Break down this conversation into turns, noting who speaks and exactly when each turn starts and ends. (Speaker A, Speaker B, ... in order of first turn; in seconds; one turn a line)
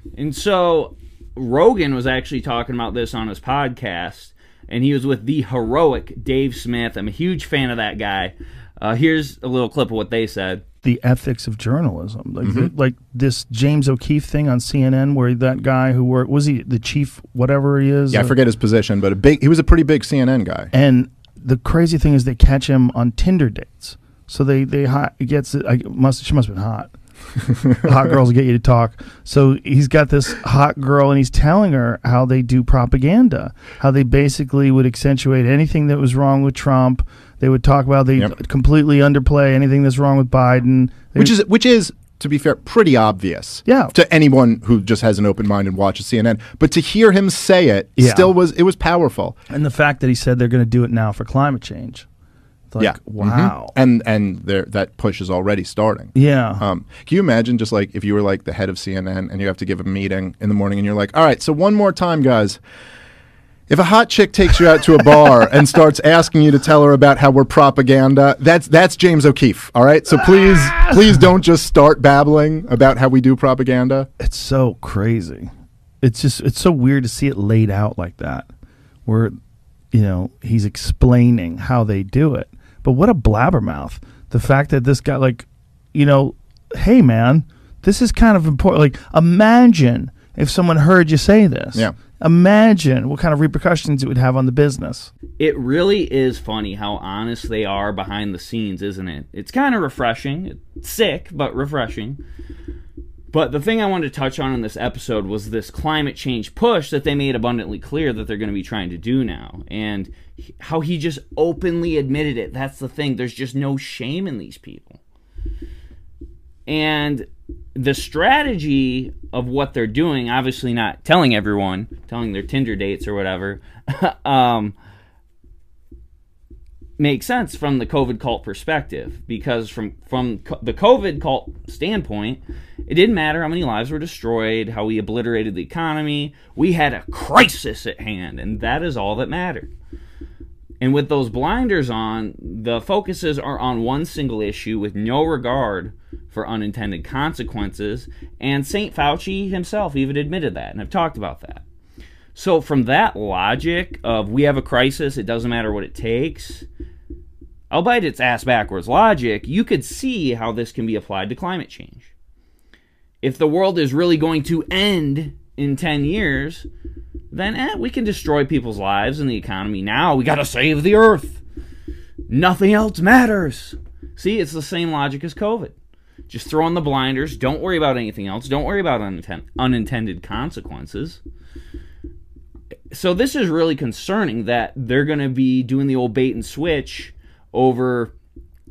Speaker A: 0.1-10.6
Speaker B: 10.8-18.3
Speaker C: 12.4-12.7
Speaker C: 18.1-20.7
Speaker B: 20.7-26.9
Speaker B: 27.8-41.3
Speaker C: 41.1-49.3
Speaker B: 43.6-43.9
Speaker B: 48.0-48.4
Speaker B: 49.5-52.1
Speaker B: 52.7-53.7
Speaker C: 52.8-62.6
Speaker B: 56.1-56.6
Speaker C: 63.7-74.1
Speaker B: 74.2-78.5
Speaker B: 79.0-79.4
Speaker B: 79.9-95.1
Speaker A: 95.4-102.2
Speaker A: 103.3-115.0
Speaker A: 116.7-124.8
Speaker A: 127.0-139.7
Speaker A: 140.8-151.6
Speaker A: 152.3-156.7
Speaker A: 157.7-162.1
Speaker A: 163.2-166.7
Speaker A: 167.3-171.4
Speaker A: 172.3-175.7
Speaker A: 176.3-181.2
Speaker A: 182.9-188.1